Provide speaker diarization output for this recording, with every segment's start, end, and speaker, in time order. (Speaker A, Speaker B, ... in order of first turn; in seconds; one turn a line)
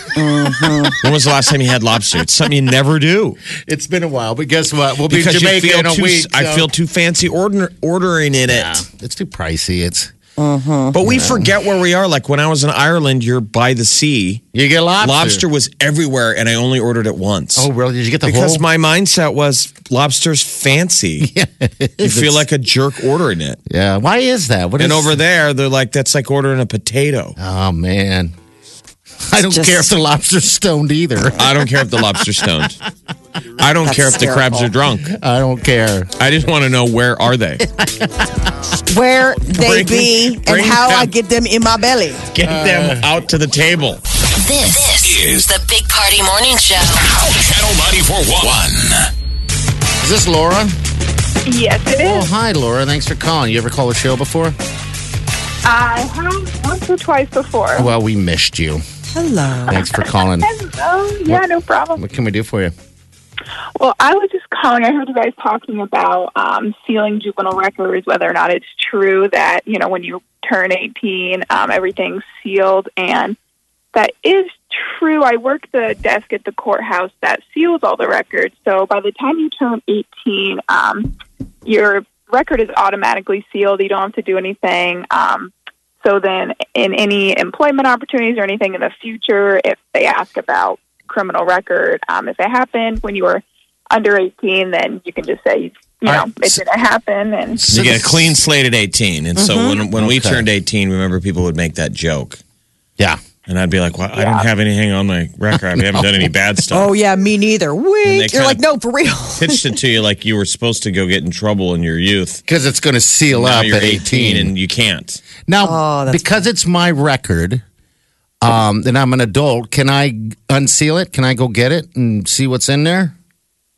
Speaker A: 0.1-1.0
Speaker B: 1.0-3.4
Speaker C: 3.5-6.7
Speaker B: 5.1-8.8
Speaker C: 8.5-10.1
Speaker A: 10.4-10.9
Speaker B: 10.9-14.4
Speaker C: 11.0-11.5
Speaker C: 14.5-15.4
Speaker B: 15.0-17.7
Speaker C: 17.6-18.6
Speaker B: 18.2-21.3
Speaker C: 21.2-22.4
Speaker B: 22.0-23.6
Speaker C: 23.7-25.2
Speaker B: 24.8-27.4
Speaker C: 27.4-28.3
Speaker C: 29.2-31.9
Speaker A: 29.5-29.9
Speaker B: 31.4-32.8
Speaker B: 33.6-35.1
Speaker A: 33.8-34.6
Speaker C: 35.0-36.1
Speaker B: 36.2-37.6
Speaker C: 37.6-38.3
Speaker A: 38.9-42.2
Speaker B: 39.5-41.1
Speaker B: 42.3-44.0
Speaker C: 42.4-43.1
Speaker D: 44.4-47.0
Speaker E: 45.0-45.5
Speaker E: 47.1-49.1
Speaker C: 50.0-50.8
Speaker F: 51.5-52.3
Speaker C: 51.9-54.5
Speaker F: 55.6-57.9
Speaker C: 57.8-58.8
Speaker A: 59.1-59.8
Speaker C: 59.7-60.5
Speaker F: 59.8-62.0
Speaker C: 61.9-62.7
Speaker F: 63.8-73.4
Speaker F: 73.9-81.1
Speaker F: 81.6-97.6
Speaker C: 96.0-96.6
Speaker C: 97.6-98.4
Speaker B: 97.7-102.4
Speaker A: 99.4-99.8
Speaker C: 99.9-100.5
Speaker B: 103.5-106.9
Speaker F: 104.2-104.5
Speaker C: 105.7-106.3
Speaker A: 106.7-109.8
Speaker B: 108.0-108.6
Speaker B: 109.4-112.4
Speaker C: 112.5-114.5
Speaker B: 113.3-115.2
Speaker C: 115.5-117.6
Speaker A: 115.6-116.4
Speaker C: 118.4-123.1